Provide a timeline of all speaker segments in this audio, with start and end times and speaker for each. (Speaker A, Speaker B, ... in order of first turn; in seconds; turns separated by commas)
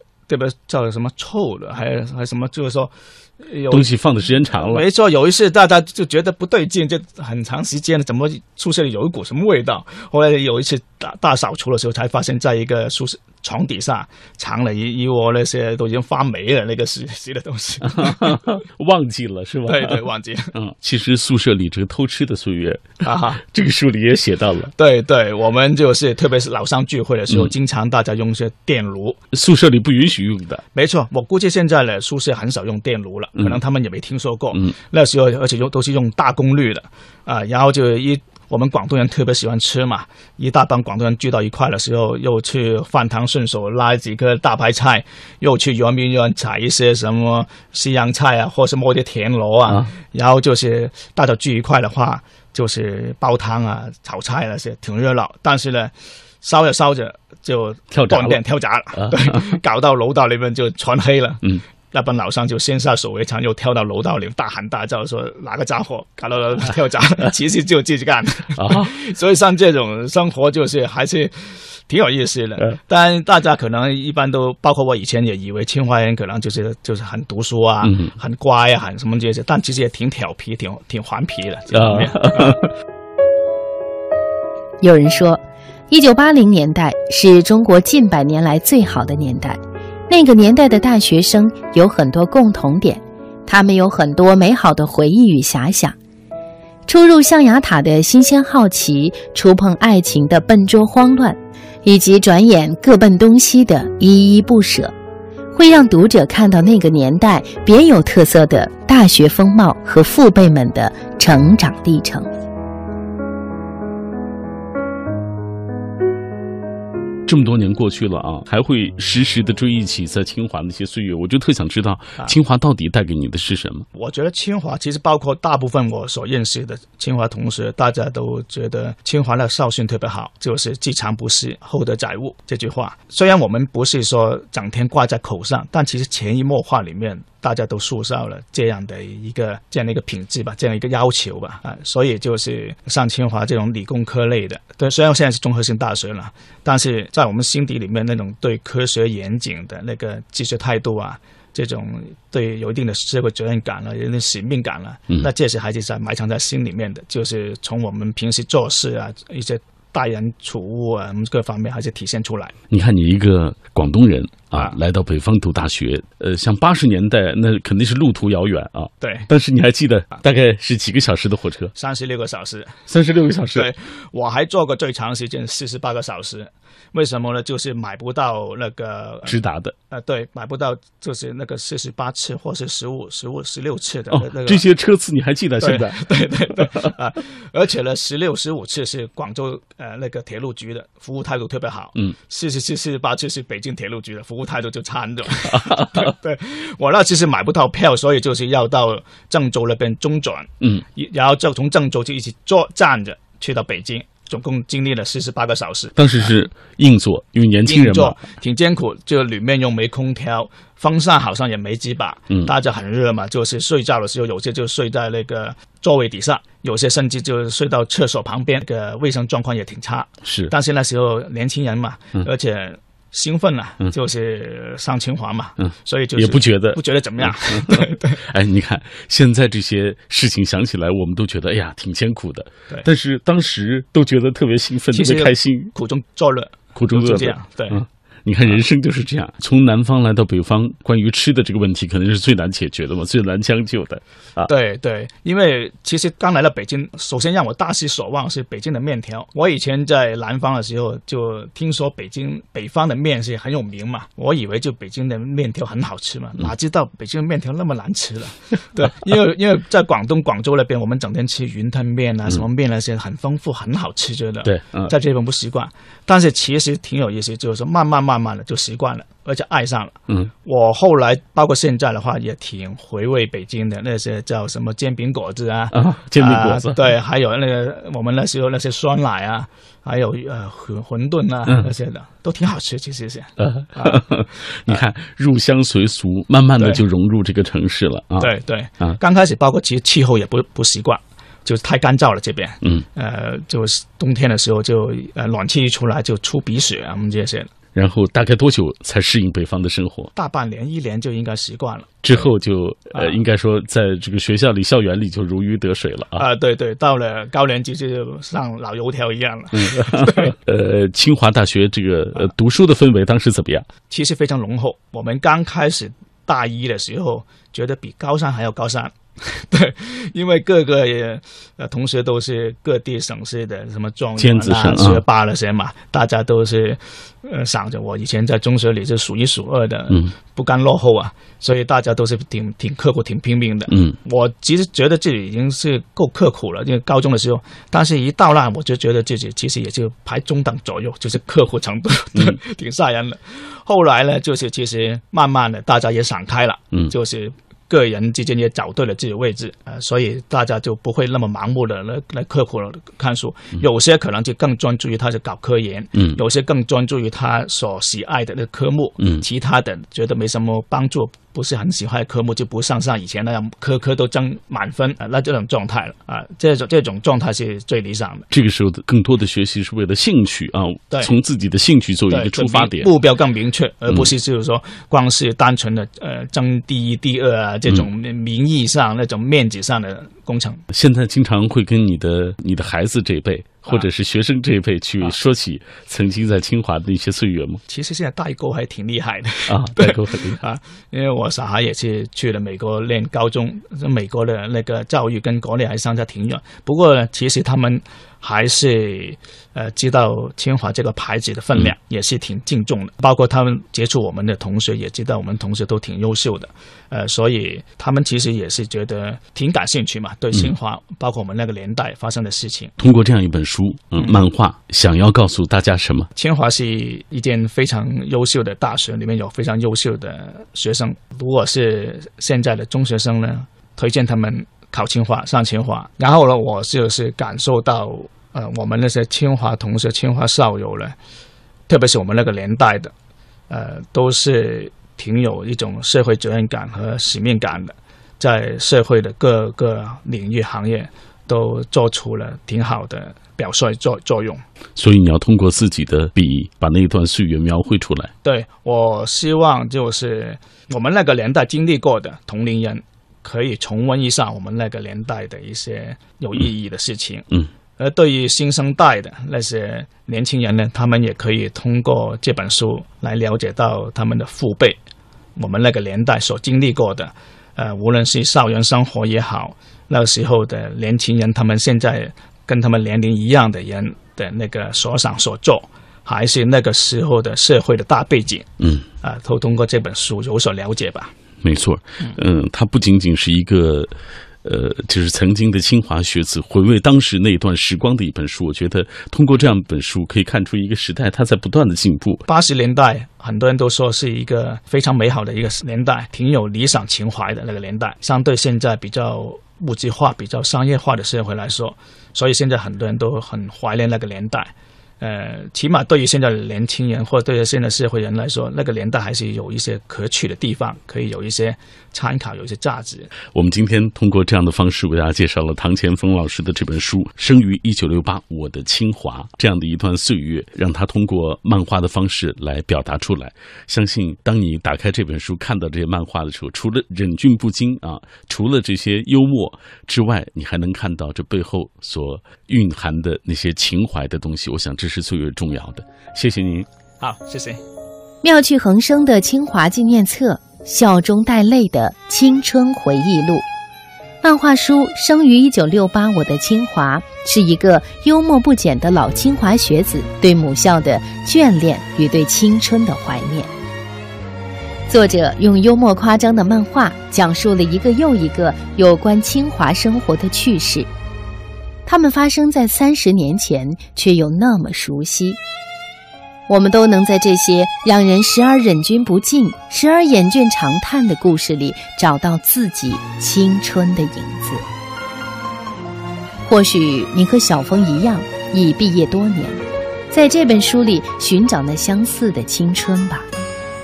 Speaker A: 0.3-3.9, Speaker B: 3.7-4.8, Speaker A: 4.5-18.4, Speaker B: 17.8-24.7, Speaker A: 19.7-20.5, Speaker A: 23.0-23.4, Speaker A: 24.8-29.2, Speaker B: 29.3-30.6, Speaker A: 30.7-82.6, Speaker B: 49.7-49.9, Speaker B: 57.9-58.4, Speaker B: 59.0-59.5, Speaker B: 68.6-68.9, Speaker B: 77.8-78.1, Speaker B: 81.7-82.7, Speaker C: 84.8-96.0, Speaker C: 96.9-104.9, Speaker C: 105.5-112.3, Speaker B: 117.3-123.9, Speaker A: 123.9-162.6, Speaker B: 162.7-171.7, Speaker A: 169.0-169.3, Speaker A: 171.8-172.8, Speaker B: 172.9-173.7, Speaker A: 173.5-179.4, Speaker B: 179.3-179.8, Speaker A: 179.9-184.7, Speaker B: 184.1-186.9, Speaker A: 185.6-206.3, Speaker B: 195.4-196.1, Speaker B: 206.0-208.2, Speaker A: 207.7-228.2, Speaker B: 220.2-220.5, Speaker B: 225.6-235.7, Speaker A: 234.9-237.8, Speaker B: 236.8-244.5, Speaker A: 244.5-284.0, Speaker B: 264.4-264.9, Speaker B: 275.7-276.9, Speaker B: 283.4-288.3, Speaker A: 288.2-297.5, Speaker B: 297.8-300.1, Speaker A: 300.1-302.3, Speaker B: 302.0-306.2, Speaker A: 306.2-310.3, Speaker B: 309.5-313.7, Speaker A: 313.9-368.3, Speaker B: 324.2-325.0, Speaker B: 333.7-334.0, Speaker B: 368.3-372.9, Speaker A: 372.1-380.6, Speaker B: 380.7-387.6, Speaker A: 387.7-412.7, Speaker B: 389.5-390.4, Speaker B: 412.8-416.1, Speaker A: 416.2-431.0, Speaker A: 431.7-432.9, Speaker A: 433.5-444.4, Speaker B: 444.8-448.1, Speaker A: 448.2-457.3, Speaker A: 457.8-464.8, Speaker A: 465.4-478.5, Speaker B: 478.6-478.9, Speaker A: 479.0-481.1, Speaker B: 481.4-483.9, Speaker B: 484.4-492.2, Speaker A: 492.3-513.1, Speaker B: 513.3-536.7, Speaker A: 537.0-537.6, Speaker C: 538.2-543.5, Speaker C: 544.2-553.5, Speaker C: 554.9-560.9, Speaker C: 561.9-565.4, Speaker C: 566.5-574.7, Speaker C: 576.5-583.3